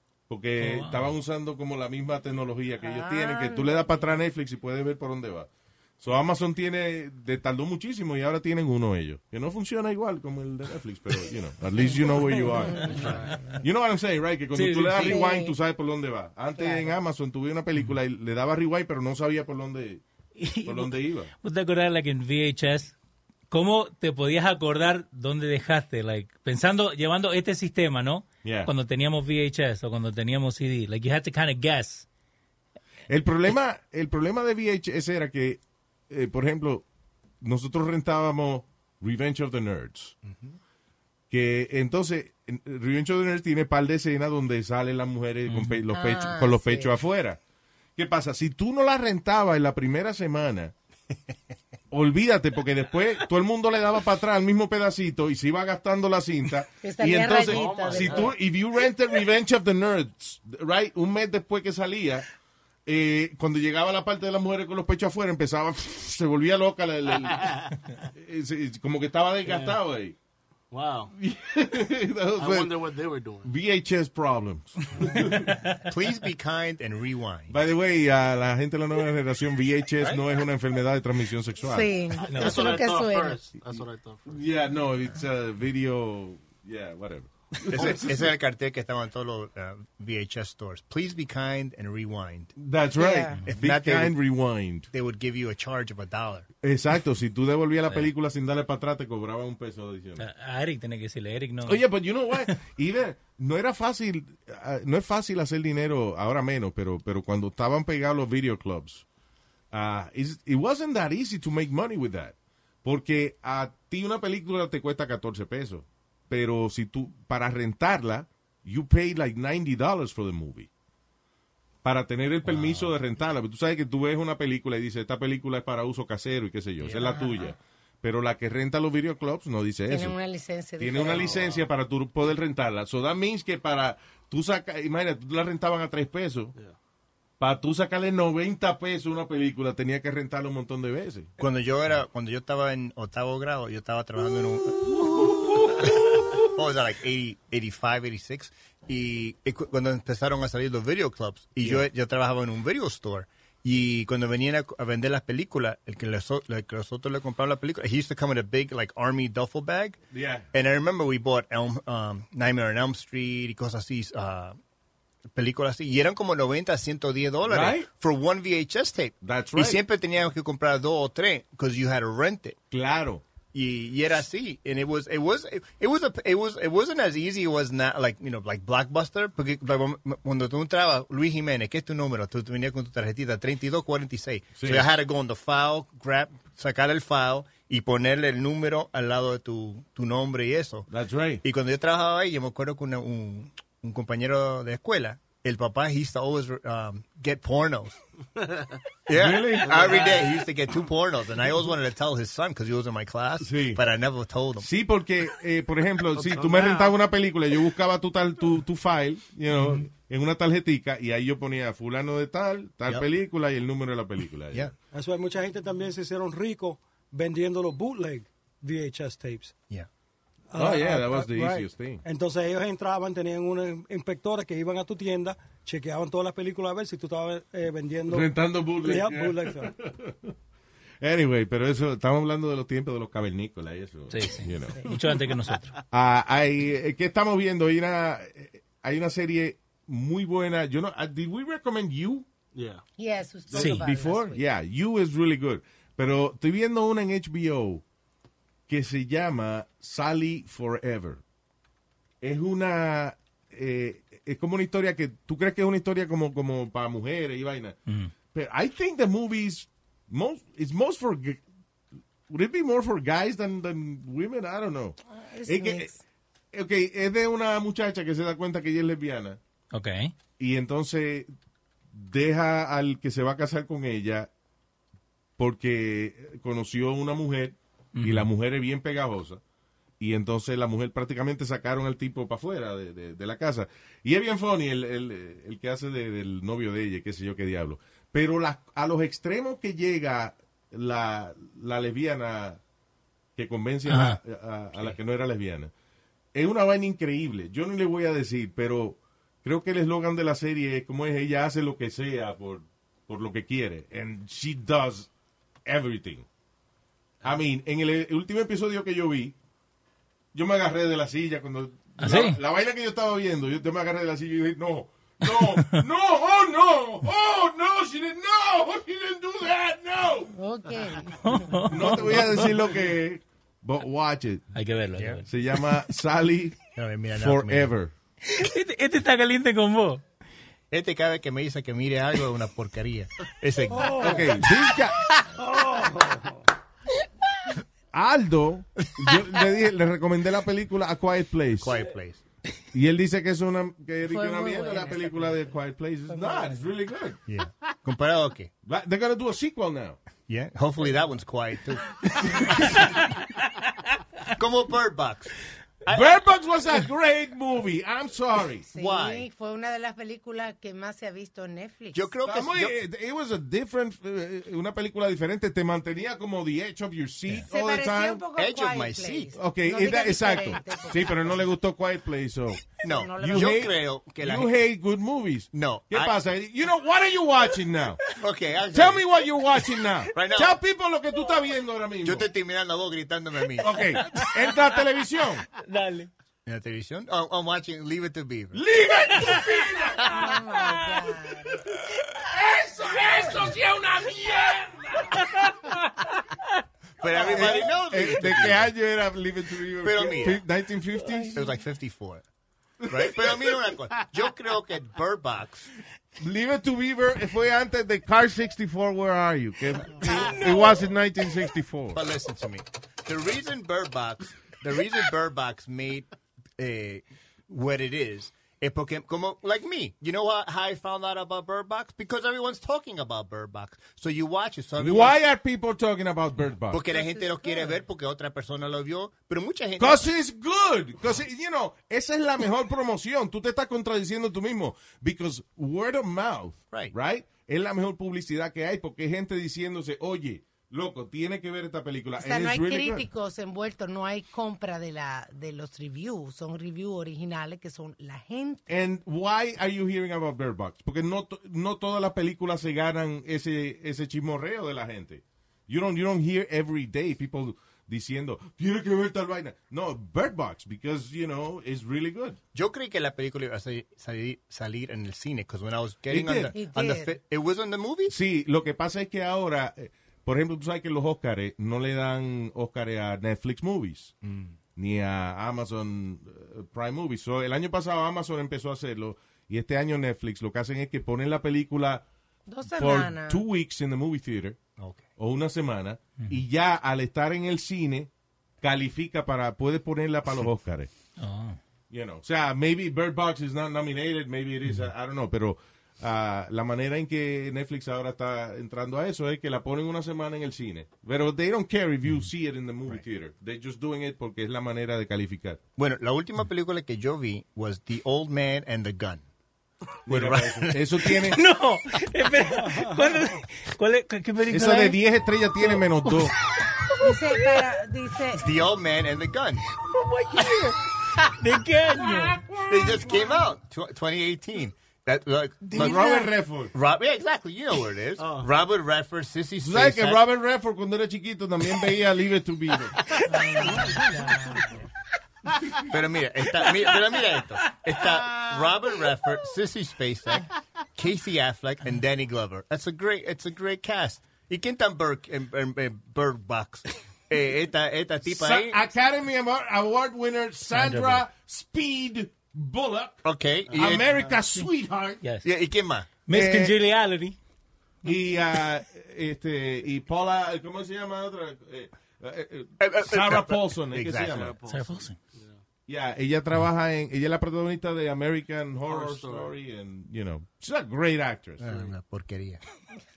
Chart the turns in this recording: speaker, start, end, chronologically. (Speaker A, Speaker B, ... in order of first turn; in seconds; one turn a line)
Speaker A: 0.3-20.0
Speaker B: 0.6-1.1
Speaker C: 2.8-4.1
Speaker C: 11.8-13.6
Speaker B: 14.5-15.2
Speaker C: 15.0-15.5
Speaker C: 16.6-16.9
Speaker B: 20.4-22.9
Speaker A: 20.6-21.3
Speaker B: 23.5-32.0
Speaker A: 28.4-28.7
Speaker A: 33.1-36.8
Speaker A: 37.4-40.1
Speaker D: 40.2-40.6
Speaker A: 41.3-47.4
Speaker B: 45.5-45.8
Speaker C: 45.9-46.9
Speaker A: 48.0-50.7
Speaker A: 51.9-62.2
Speaker C: 56.8-58.4
Speaker E: 57.4-58.4
Speaker A: 62.9-70.2
Speaker E: 67.3-67.7
Speaker E: 69.5-69.8
Speaker E: 70.7-71.1
Speaker A: 71.1-72.7
Speaker E: 72.4-73.5
Speaker A: 73.4-75.6
Speaker D: 75.8-77.6
Speaker A: 77.5-81.9
Speaker C: 81.6-83.4
Speaker E: 82.2-84.4
Speaker B: 82.3-82.6
Speaker A: 84.3-88.3
Speaker D: 87.7-92.5
Speaker A: 92.6-94.9
Speaker C: 93.0-93.4
Speaker D: 93.5-94.2
Speaker D: 94.9-96.5
Speaker A: 96.6-100.2
Speaker B: 100.2-102.5
Speaker A: 101.6-109.0
Speaker A: 109.7-120.7
Speaker A: 121.8-130.2
Speaker B: 122.4-122.9
Speaker C: 129.9-131.5
Speaker A: 130.8-136.5
Speaker A: 137.4-141.3
Speaker D: 141.4-160.0
Speaker A: 145.0-145.9
Speaker A: 151.6-151.9
Speaker A: 160.1-160.5
Speaker D: 160.5-164.6
Speaker D: 165.3-172.6
Speaker A: 167.4-167.9
Speaker A: 169.2-169.8
Speaker A: 172.7-173.2
Speaker D: 173.5-190.9
Speaker A: 184.6-184.9
Speaker A: 190.9-191.4
Speaker D: 191.4-198.0
Speaker E: 198.4-198.8
Speaker D: 199.1-204.7
Speaker A: 199.1-200.3
Speaker E: 199.6-200.4
Speaker A: 203.4-203.8
Speaker A: 204.6-214.7
Speaker E: 206.1-206.9
Speaker F: 214.9-219.5
Speaker F: 220.5-229.8
Speaker A: 220.6-222.0
Speaker A: 228.1-230.3
Speaker A: 231.0-234.9
Speaker B: 234.1-235.7
Speaker A: 235.9-242.3
Speaker E: 242.5-242.8
Speaker C: 243.0-244.4
Speaker A: 243.5-247.8
Speaker B: 243.5-243.8
Speaker A: 248.7-251.2
Speaker A: 252.2-257.8
Speaker B: 257.9-258.1
Speaker A: 258.3-261.4
Speaker A: 262.3-265.9
Speaker C: 265.1-266.0
Speaker A: 266.5-269.4
Speaker B: 269.7-270.1
Speaker A: 270.4-271.3
Speaker A: 271.9-274.3
Speaker A: 275.4-279.4
Speaker B: 277.9-278.3
Speaker A: 280.0-292.6
Speaker A: 293.4-295.7
Speaker B: 293.9-294.2
Speaker A: 296.3-305.1
Speaker A: 305.6-306.3
Speaker A: 307.2-309.4
Speaker A: 310.3-320.3
Speaker B: 312.0-312.4
Speaker C: 320.3-321.6
Speaker B: 321.2-322.6
Speaker A: 321.6-324.4
Speaker B: 324.5-325.3
Speaker D: 325.0-325.2
Speaker A: 325.3-326.6
Speaker D: 326.7-327.7
Speaker A: 327.1-327.9
Speaker B: 328.2-330.0
Speaker D: 330.7-334.4
Speaker F: 333.7-334.4
Speaker A: 334.0-335.0
Speaker F: 335.3-336.4
Speaker A: 337.9-341.9
Speaker D: 341.6-342.2
Speaker A: 342.7-347.2
Speaker C: 344.0-345.4
Speaker C: 346.1-346.6
Speaker D: 347.3-348.5
Speaker A: 348.6-350.0
Speaker D: 350.3-353.0
Speaker D: 354.3-356.2
Speaker A: 355.9-358.7
Speaker C: 358.7-362.0
Speaker D: 358.7-359.3
Speaker D: 361.9-362.7
Speaker A: 362.2-368.2
Speaker C: 367.5-371.4
Speaker D: 368.3-369.3
Speaker A: 369.3-378.0
Speaker D: 372.8-374.5
Speaker C: 372.9-373.7
Speaker D: 375.5-376.1
Speaker D: 378.1-379.0
Speaker A: 378.7-382.3
Speaker D: 380.1-380.6
Speaker D: 382.0-383.9
Speaker A: 383.6-385.4
Speaker B: 384.0-384.6
Speaker B: 385.6-386.1
Speaker D: 386.4-388.6
Speaker A: 388.5-390.5
Speaker C: 390.1-391.7
Speaker A: 391.7-395.4
Speaker B: 395.2-396.0
Speaker D: 397.0-398.7
Speaker A: 397.1-401.4
Speaker D: 399.8-400.4
Speaker D: 401.3-402.2
Speaker A: 402.8-403.7
Speaker D: 402.9-405.7
Speaker A: 406.2-412.0
Speaker D: 410.0-410.5
Speaker D: 411.9-425.1
Speaker A: 424.8-426.8
Speaker D: 426.7-430.0
Speaker C: 426.9-427.8
Speaker A: 429.8-443.1
Speaker C: 442.2-448.7
Speaker A: 448.7-462.4
Speaker D: 462.5-468.1
Speaker A: 466.1-466.5
Speaker C: 466.5-467.1
Speaker A: 468.1-474.1
Speaker D: 474.2-474.6
Speaker A: 474.8-482.0
Speaker C: 482.5-483.4
Speaker A: 482.7-484.6
Speaker A: 485.2-488.1
Speaker A: 488.6-490.9
Speaker B: 491.2-491.6
Speaker A: 491.9-505.6
Speaker D: 505.8-509.2
Speaker A: 510.1-511.4
Speaker D: 510.1-511.2
Speaker B: 511.3-515.0
Speaker F: 512.5-513.1
Speaker A: 514.5-516.3
Speaker B: 515.6-517.7
Speaker C: 517.0-518.5
Speaker D: 518.3-519.6
Speaker B: 519.7-522.5
Speaker A: 522.1-523.2
Speaker D: 522.7-530.2
Speaker A: 525.7-526.7
Speaker E: 528.2-528.5
Speaker A: 529.6-533.0
Speaker C: 533.3-534.8
Speaker D: 535.7-548.8
Speaker A: 548.2-555.2
Speaker B: 550.7-551.2
Speaker D: 553.2-554.1
Speaker E: 553.7-554.4
Speaker B: 555.2-555.5
Speaker D: 555.4-556.1
Speaker B: 556.2-557.4
Speaker A: 556.3-556.7
Speaker A: 558.0-564.5
Speaker D: 562.8-564.5
Speaker E: 564.0-565.6
Speaker B: 564.7-565.2
Speaker A: 565.9-571.7
Speaker E: 568.9-569.5
Speaker D: 571.6-572.6
Speaker E: 571.6-571.9